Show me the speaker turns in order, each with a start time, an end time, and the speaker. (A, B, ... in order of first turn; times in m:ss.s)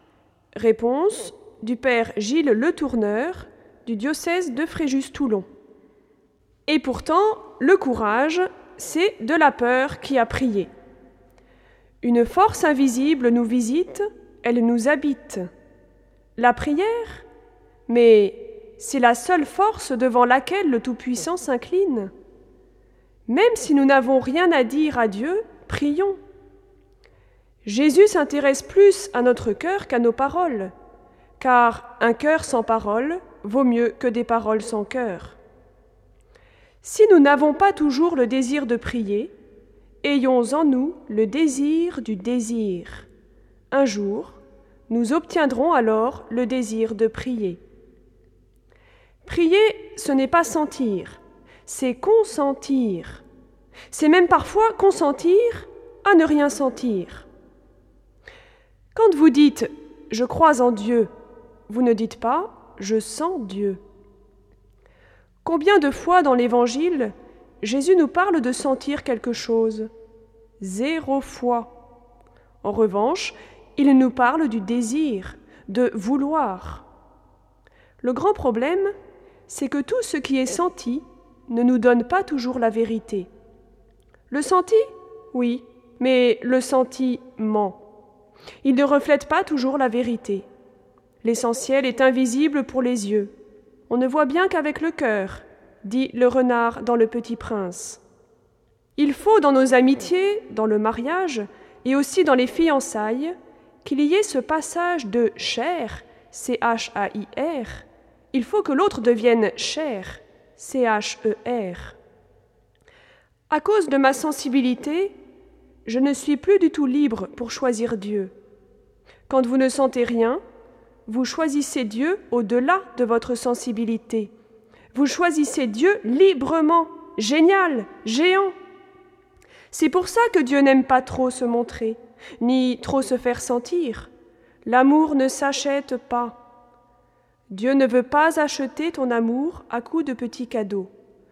0:00.6-0:05.5 A
0:06.7-0:10.7 A
0:12.0-0:15.5 A
0:16.4-0:17.3 A
0:17.9-0:22.1 A
0:23.3-0:26.2 A
0:27.6-0:30.7 A
0:31.4-0:35.4 A
0:36.8-0:39.3 A
0:40.0-0:43.1 A
0:43.7-0:47.6 A
0:49.2-0:53.2 A
0:53.9-0:57.3 A
0:59.0-1:01.1 A
1:01.7-1:03.8 A
1:05.4-1:09.9 A
1:10.6-1:11.8 A
1:12.6-1:16.9 A
1:18.0-1:18.9 A
1:19.5-1:23.3 A
1:24.3-1:27.8 A
1:28.6-1:30.5 A
1:31.2-1:33.3 A
1:33.9-1:38.0 A
1:39.0-1:52.0 A
1:53.5-1:55.2 A
1:55.9-1:58.3 A
1:59.3-2:00.4 A
2:01.1-2:04.3 A
2:04.9-2:08.6 A
2:09.7-2:14.1 A
2:14.6-2:16.4 A
2:17.5-2:20.9 A